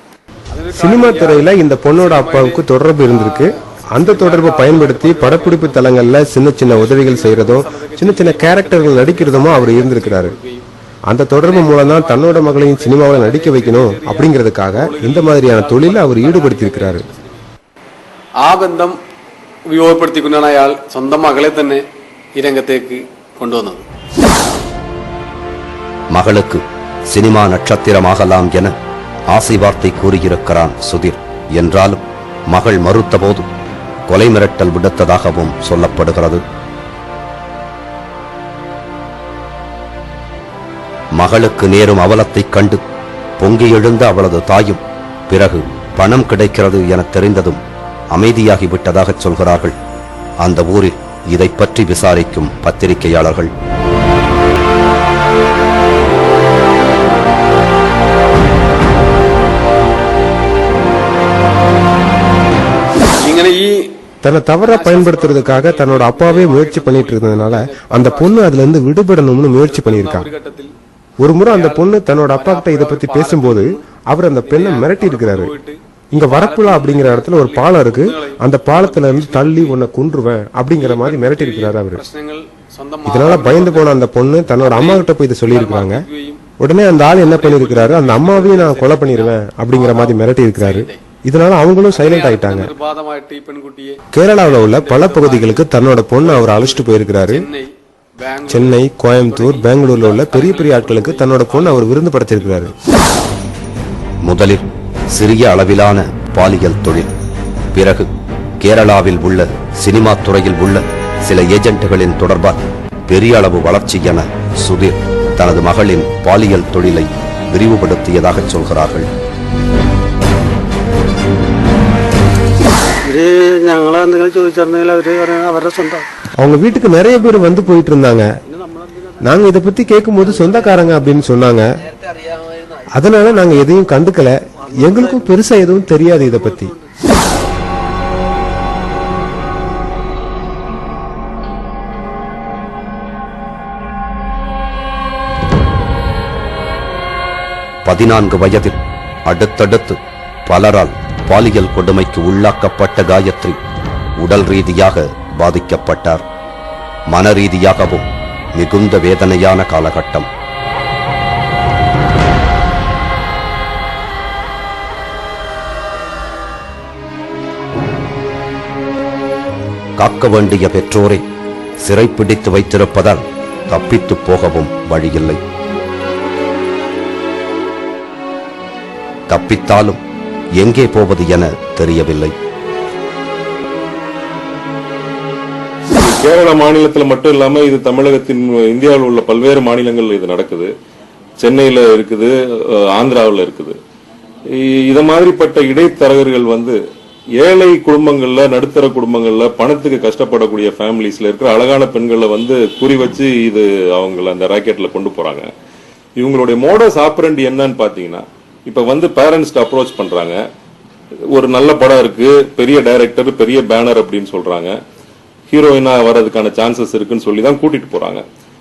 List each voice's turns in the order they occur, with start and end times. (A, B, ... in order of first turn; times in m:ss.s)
0:00.5-0:10.6 A
0:00.7-0:10.3 B
0:11.1-0:17.0 B
0:11.3-0:17.4 A
0:18.4-0:19.0 A
0:19.7-0:23.8 A
0:26.1-0:28.7 C
0:29.3-0:33.5 C
0:34.1-0:36.4 C
0:41.1-0:42.8 C
0:43.4-0:47.6 C
0:48.1-0:49.7 C
0:50.4-0:53.5 C
1:03.2-1:03.9 A
1:04.2-1:10.3 B
1:04.7-1:08.4 A
1:09.6-1:10.7 A
1:11.2-1:15.5 B
1:11.5-1:13.8 A
1:14.4-1:19.8 A
1:16.1-1:22.0 B
1:20.8-1:24.0 A
1:23.0-1:26.0 B
1:24.6-1:31.0 A
1:26.6-1:32.7 B
1:31.9-1:42.6 A
1:34.1-1:37.5 B
1:38.5-1:42.7 B
1:44.2-1:47.1 C
1:47.7-1:48.1 C
1:48.6-1:59.1 C
2:03.1-2:05.9 D
2:06.4-2:08.2 B
2:09.2-2:11.6 B
2:12.9-2:16.7 B
2:27.8-2:33.6 C
2:34.2-2:36.2 C
2:37.1-2:40.3 C
2:50.0-2:51.2 C
2:51.8-2:55.4 C
2:59.3-3:00.0 C
3:00.6-3:02.3 C
3:06.0-3:10.7 E
3:11.4-3:13.8 E
3:14.5-3:16.8 E
3:17.4-3:25.5 E
3:26.2-3:30.4 E
3:31.3-3:34.8 E
3:35.5-3:38.2 E